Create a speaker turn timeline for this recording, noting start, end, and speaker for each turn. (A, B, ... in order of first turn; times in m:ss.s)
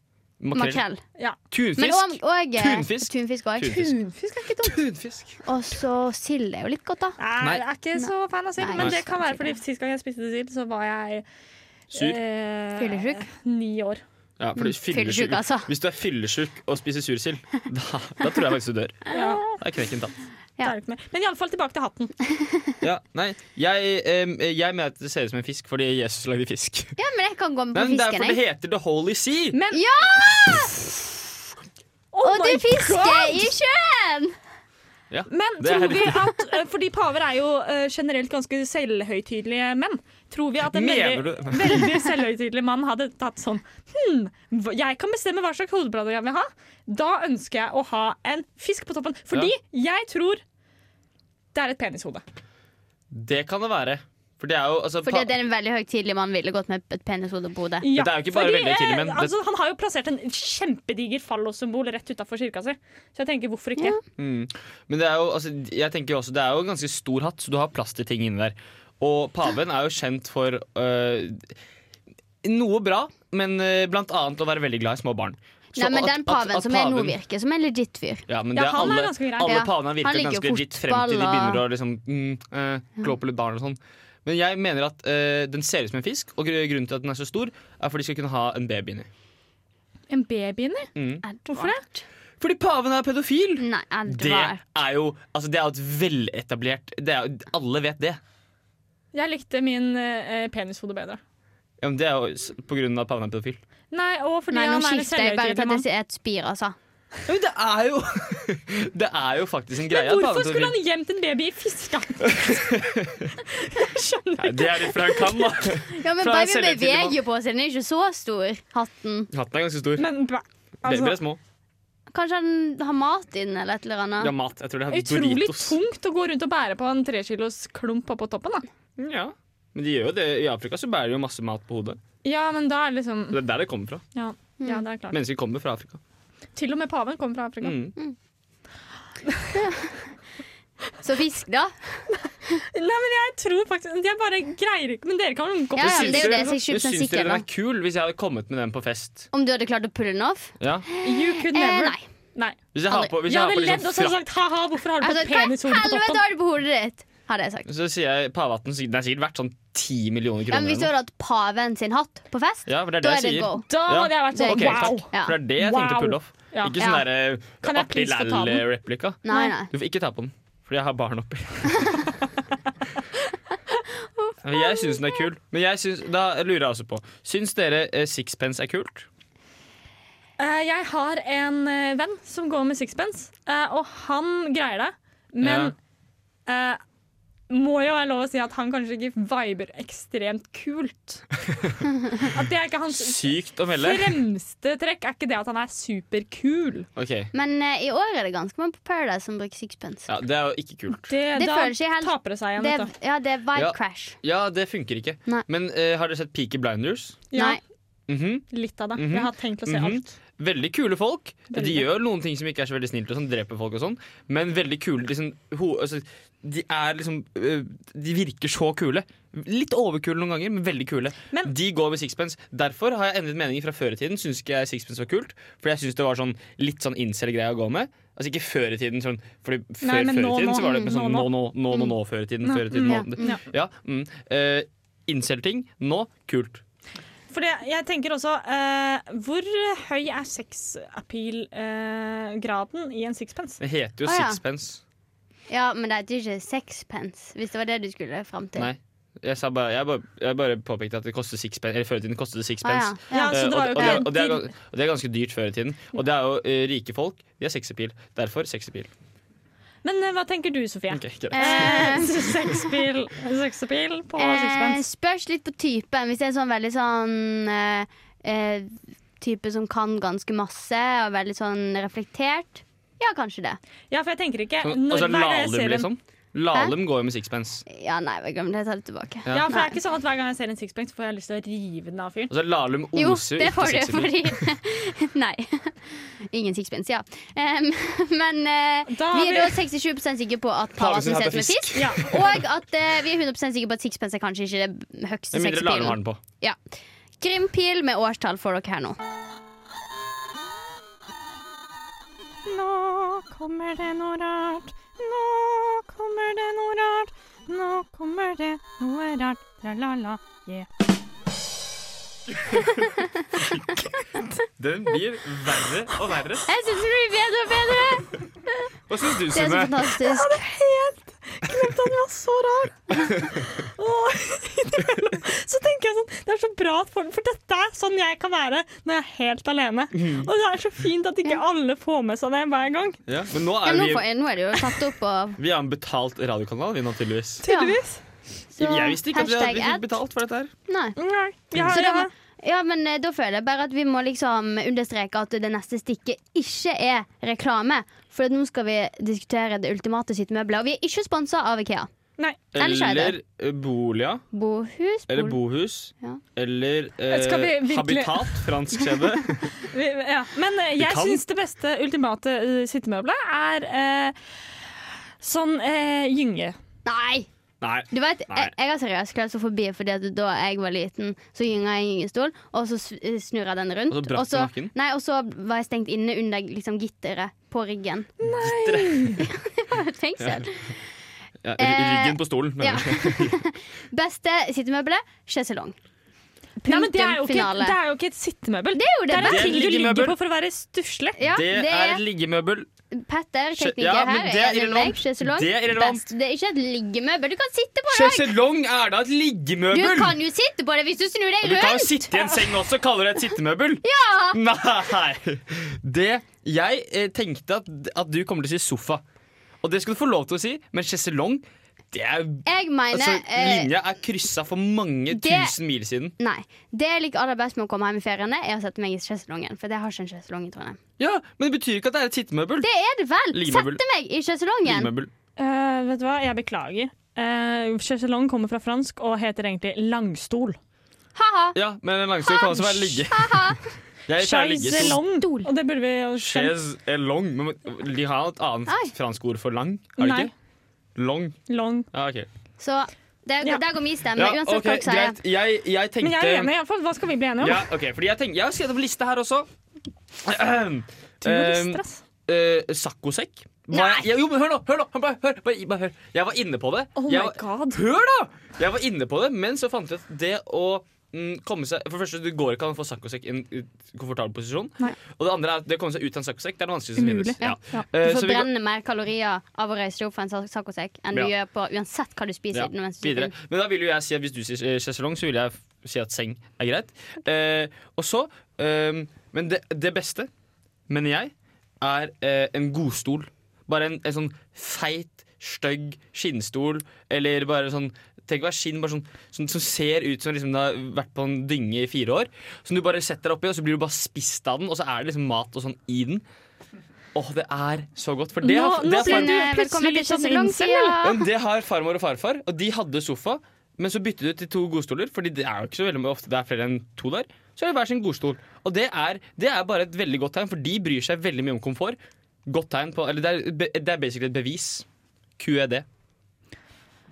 0:00.4-0:00.8 A
0:00.5-0:01.0 B
0:01.5-0:04.0 A
0:01.8-0:03.7 B
0:03.6-0:04.8 C
0:04.6-0:05.4 A
0:05.4-0:07.2 B
0:07.2-0:11.2 C
0:08.0-0:09.5 B
0:11.9-0:14.0 C
0:11.9-0:12.2 A
0:12.8-0:13.2 B
0:14.4-0:20.2 A
0:14.6-0:15.7 B
0:19.1-0:19.4 B
0:19.1-0:19.4 C
0:20.6-0:22.1 C
0:22.3-0:22.8 B
0:22.8-0:27.0 A
0:27.0-0:28.4 B
0:27.7-0:29.6 A
0:29.5-0:30.0 C
0:29.7-0:31.1 B
0:32.1-0:33.5 C
0:32.2-0:34.4 B
0:35.1-0:36.2 A
0:35.3-0:50.4 C
0:40.7-0:41.9 A
0:51.5-0:52.2 C
0:53.1-0:55.3 A
0:55.0-0:57.9 B
0:57.8-1:04.0 C
0:57.9-0:59.3 A
1:04.2-1:11.5 A
1:12.4-1:17.1 A
1:15.7-1:18.2 B
1:18.3-1:29.1 A
1:18.5-1:19.7 C
1:19.4-1:21.6 B
1:30.1-1:30.9 C
1:31.0-1:31.2 A
1:31.2-1:32.0 B
1:31.5-1:31.8 C
1:32.4-1:38.2 A
1:33.6-1:34.6 B
1:39.1-1:41.2 C
1:41.8-1:43.6 A
1:43.9-1:45.8 C
1:44.5-1:46.8 B
1:47.2-1:50.8 A
1:49.9-1:52.6 C
1:52.3-1:53.3 A
1:53.4-1:55.5 C
1:54.4-1:57.2 A
1:55.9-1:59.3 B
1:59.3-2:00.1 A
2:00.0-2:01.2 C
2:00.8-2:01.4 A
2:02.1-2:04.3 B
2:04.2-2:05.8 A
2:04.9-2:08.6 C
2:09.0-2:12.0 A
2:12.2-2:13.4 C
2:13.3-2:14.0 A
2:14.1-2:15.2 C
2:15.1-2:16.0 A
2:16.6-2:17.8 C
2:17.6-2:17.9 A
2:19.6-2:19.9 B
2:21.0-2:22.6 B
2:22.2-2:26.6 C
2:25.7-2:27.4 B
2:25.8-2:29.3 A
2:29.3-2:32.0 B
2:30.6-2:30.9 A
2:31.0-2:32.6 C
2:32.7-2:34.2 A
2:33.2-2:36.2 C
2:35.0-2:37.7 B
2:37.7-2:40.9 A
2:40.5-2:45.4 B
2:42.6-2:52.2 A
2:43.7-2:46.8 C
2:46.8-2:47.0 B
2:47.6-2:48.6 C
2:49.2-2:49.7 B
2:54.1-2:55.2 B
2:54.4-2:59.1 A
3:00.4-3:05.7 C
3:05.4-3:05.7 A
3:06.5-3:06.8 C
3:07.5-3:11.2 C
3:12.2-3:16.9 C
3:12.9-3:14.2 A
3:17.0-3:17.3 A
3:17.3-3:20.1 B
3:20.1-3:21.1 A
3:21.1-3:22.9 C
3:21.3-3:24.2 B
3:23.5-3:27.2 A
3:27.3-3:27.6 C
3:27.3-3:27.6 B
3:28.1-3:56.6 A
3:28.5-3:30.1 C
3:31.5-3:31.9 C
3:49.8-3:51.3 C
3:52.4-3:53.4 C
3:52.8-3:53.4 B
3:57.3-4:03.6 C
4:03.6-4:04.8 A
4:04.0-4:04.4 B
4:05.5-4:08.7 B
4:08.6-4:18.9 A
4:12.6-4:14.1 B
4:13.1-4:14.5 C
4:19.8-4:24.8 C
4:20.9-4:21.9 A
4:21.3-4:22.6 B
4:24.2-4:33.6 B
4:33.9-4:35.9 C
4:34.6-4:37.6 A
4:37.7-4:39.8 B
4:39.3-4:42.3 C
4:42.3-4:44.4 A
4:42.9-4:56.6 B
4:48.9-4:49.6 C
4:50.8-4:52.4 A
4:51.7-4:52.2 C
4:55.3-4:56.2 A
4:57.2-4:59.0 B
5:02.4-5:10.7 C
5:12.8-5:13.1 B
5:13.8-5:14.3 C
5:14.6-5:16.5 A
5:16.5-5:18.1 B
5:18.9-5:19.8 A
5:19.3-5:20.4 B
5:20.0-5:33.0 C
5:29.9-5:30.3 A
5:33.1-5:34.0 A
5:33.6-5:35.4 B
5:35.4-5:37.4 A
5:37.4-5:38.0 C
5:37.4-5:37.8 B
5:38.5-5:39.9 B
5:38.6-5:40.5 A
5:40.7-5:41.0 B
5:41.0-5:42.1 C
5:41.5-5:41.8 A
5:41.7-5:51.9 B
5:52.5-5:54.2 A
5:52.5-5:53.2 B
5:54.3-5:55.4 B
5:55.1-5:59.6 A
5:57.1-5:58.5 C
5:59.6-6:04.1 C
6:00.8-6:01.2 A
6:05.2-6:06.6 C
6:06.8-6:07.3 B
6:07.6-6:08.5 A
6:07.9-6:18.1 B
6:13.9-6:14.7 A
6:18.2-6:19.2 C
6:18.3-6:19.2 A
6:19.2-6:20.7 B
6:20.2-6:20.4 A
6:21.4-6:23.3 A
6:21.6-6:25.8 B
6:26.6-6:27.8 B
6:26.6-6:31.2 C
6:28.7-6:29.6 B
6:29.2-6:30.2 A
6:31.2-6:32.0 B
6:31.3-6:32.7 A
6:32.9-6:38.3 B
6:33.6-6:36.0 A
6:37.9-6:40.2 A
6:39.7-6:42.1 B
6:41.4-6:49.0 A
6:43.8-6:44.4 B
6:49.6-6:56.1 A
6:52.4-6:53.7 B
6:55.1-6:55.6 B
6:56.2-7:00.8 B
7:01.0-7:02.7 A
7:02.6-7:04.9 B
7:03.3-7:03.8 A
7:04.6-7:05.1 A
7:05.4-7:10.6 C
7:11.2-7:11.6 B
7:11.5-7:13.5 A
7:12.2-7:13.7 B
7:14.1-7:15.0 A
7:14.2-7:16.5 C
7:14.8-7:15.5 B
7:16.2-7:20.3 A
7:18.7-7:18.9 B
7:20.0-7:20.3 C
7:21.0-7:21.4 A
7:21.5-7:21.9 C
7:21.9-7:22.3 A
7:22.6-7:25.2 B
7:24.2-7:26.5 A
7:26.0-7:27.7 C
7:27.4-7:29.5 A
7:30.2-7:48.5 A
7:31.2-7:32.0 C
7:33.7-7:34.1 B
7:37.0-7:37.8 C
7:47.0-7:47.8 C
7:47.4-7:53.3 B
7:52.5-8:00.3 A
8:00.9-8:16.2 A
8:17.1-8:19.4 A
8:18.4-8:21.0 C
8:18.9-8:21.2 B
8:21.0-8:34.8 A
8:35.4-8:35.8 A